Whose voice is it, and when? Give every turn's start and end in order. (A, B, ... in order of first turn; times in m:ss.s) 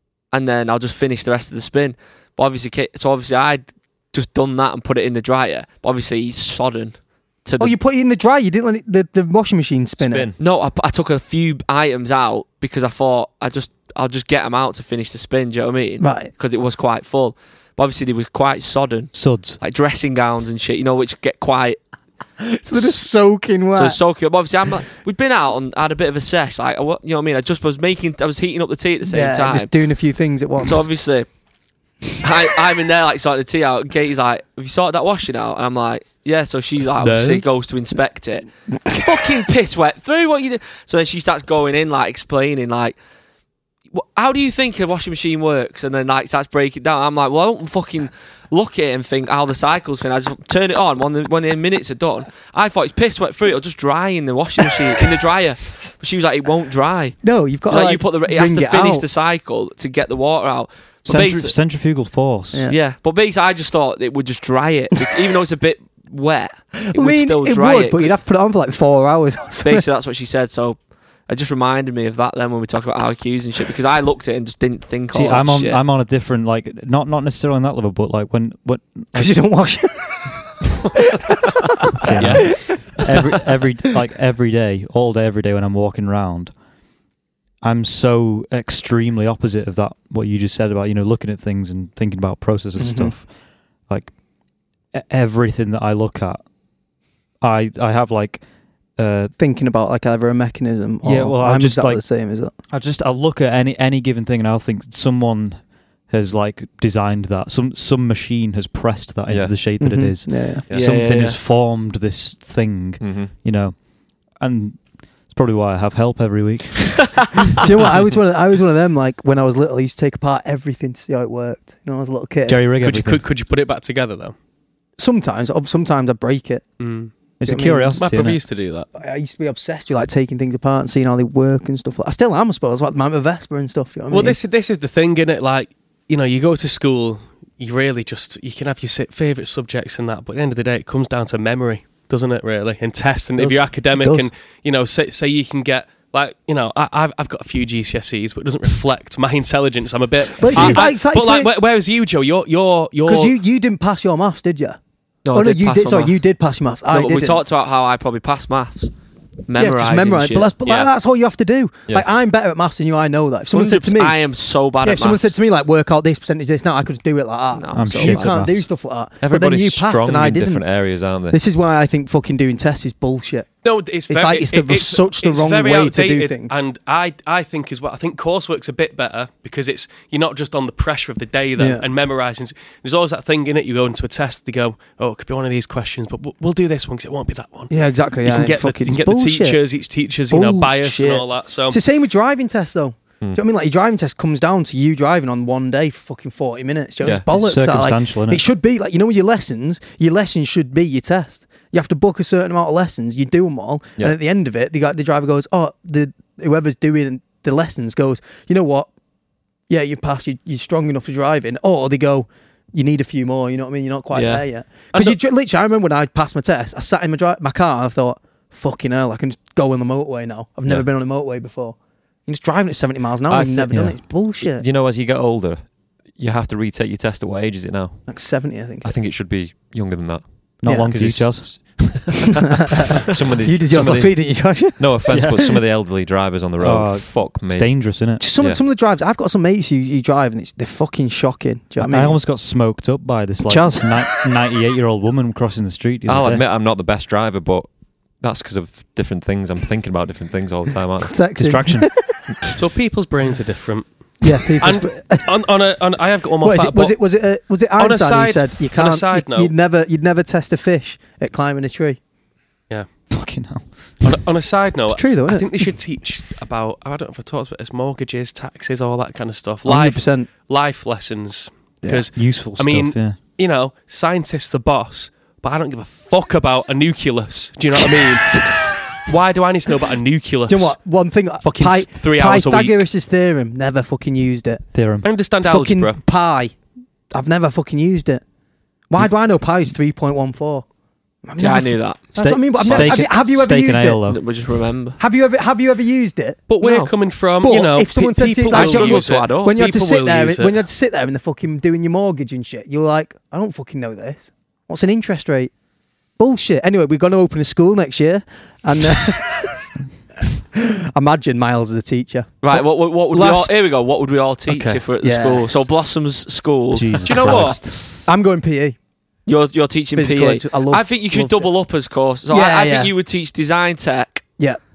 0:00.3-0:07.7 A
0:07.6-0:10.3 B
0:10.0-0:10.4 C
0:10.4-0:21.8 A
0:16.0-0:16.3 B
0:19.1-0:19.6 D
0:22.4-0:24.0 B
0:23.7-0:29.7 A
0:29.1-0:30.9 B
0:30.6-0:31.3 A
0:32.2-0:43.0 A
0:37.0-0:37.4 E
0:43.9-1:01.5 A
0:57.2-0:59.0 B
1:01.0-1:02.7 D
1:02.7-1:08.1 A
1:06.7-1:09.8 B
1:09.6-1:15.8 A
1:15.1-1:19.4 D
1:19.1-1:20.2 B
1:21.2-1:22.9 B
1:22.0-1:26.5 D
1:22.1-1:22.6 E
1:27.6-1:33.3 D
1:32.8-1:33.1 B
1:33.9-1:34.1 D
1:34.9-1:36.4 D
1:37.4-1:38.4 D
1:39.0-1:39.3 D
1:39.4-1:42.5 B
1:41.0-1:42.0 D
1:42.7-1:53.8 D
1:49.3-1:49.7 C
1:49.8-1:50.6 B
1:50.7-1:51.4 A
1:53.0-1:53.3 C
1:54.3-1:57.4 D
1:57.6-2:02.6 B
2:02.4-2:03.2 D
2:02.8-2:04.3 E
2:05.0-2:06.6 B
2:06.8-2:07.1 E
2:07.4-2:08.4 D
2:07.4-2:08.0 B
2:08.0-2:08.9 E
2:08.9-2:14.4 B
2:14.1-2:33.4 E
2:23.4-2:24.3 B
2:30.4-2:31.5 B
2:33.0-2:34.8 B
2:35.2-2:36.2 A
2:35.3-2:37.4 B
2:36.9-2:38.9 A
2:39.5-2:40.9 A
2:39.6-2:44.2 B
2:43.5-2:45.3 A
2:44.8-2:50.6 B
2:47.5-2:48.4 A
2:47.7-2:48.6 D
2:49.2-2:51.4 C
2:51.3-2:53.5 B
2:53.6-3:11.8 E
2:54.1-2:56.5 B
3:01.6-3:01.8 B
3:07.7-3:09.6 B
3:10.3-3:28.9 B
3:17.0-3:17.3 C
3:17.3-3:18.4 D
3:29.7-3:41.8 B
3:34.1-3:34.4 A
3:42.3-3:44.6 B
3:43.3-3:48.0 C
3:43.7-3:44.0 D
3:48.1-3:48.9 B
3:48.8-3:52.4 C
3:50.6-3:51.8 D
3:50.6-3:51.0 B
3:53.0-3:55.6 B
3:53.0-3:58.6 C
3:55.1-3:55.6 D
3:56.6-3:58.2 D
3:58.2-4:02.2 B
4:01.8-4:06.4 D
4:03.4-4:04.0 B
4:06.1-4:11.3 C
4:11.1-4:12.2 B
4:11.3-4:11.9 D
4:12.6-4:17.2 E
4:14.2-4:15.3 B
4:16.4-4:22.0 B
4:17.8-4:19.5 E
4:23.1-4:24.2 D
4:24.0-4:40.8 E
4:24.9-4:25.7 B
4:29.6-4:30.3 B
4:32.1-4:33.2 D
4:40.5-4:44.6 B
4:41.4-4:42.8 E
4:44.7-4:45.1 D
4:45.0-4:46.0 E
4:45.4-4:46.5 B
4:47.1-4:48.2 B
4:48.9-4:50.6 B
4:51.2-4:54.0 B
4:51.4-4:53.1 A
4:52.1-4:54.2 D
4:54.1-4:55.0 A
4:55.0-4:56.4 B
4:56.5-5:00.6 E
4:56.6-4:56.9 A
4:57.4-5:05.5 B
4:58.5-4:59.6 A
5:06.2-5:09.6 B
5:10.5-5:12.3 B
5:12.4-5:17.6 A
5:13.1-5:13.6 E
5:14.5-5:14.8 E
5:15.0-5:15.6 B
5:16.7-5:18.0 D
5:17.0-5:17.6 E
5:18.0-5:18.8 B
5:19.2-5:24.3 A
5:19.9-5:21.5 B
5:22.3-5:22.9 B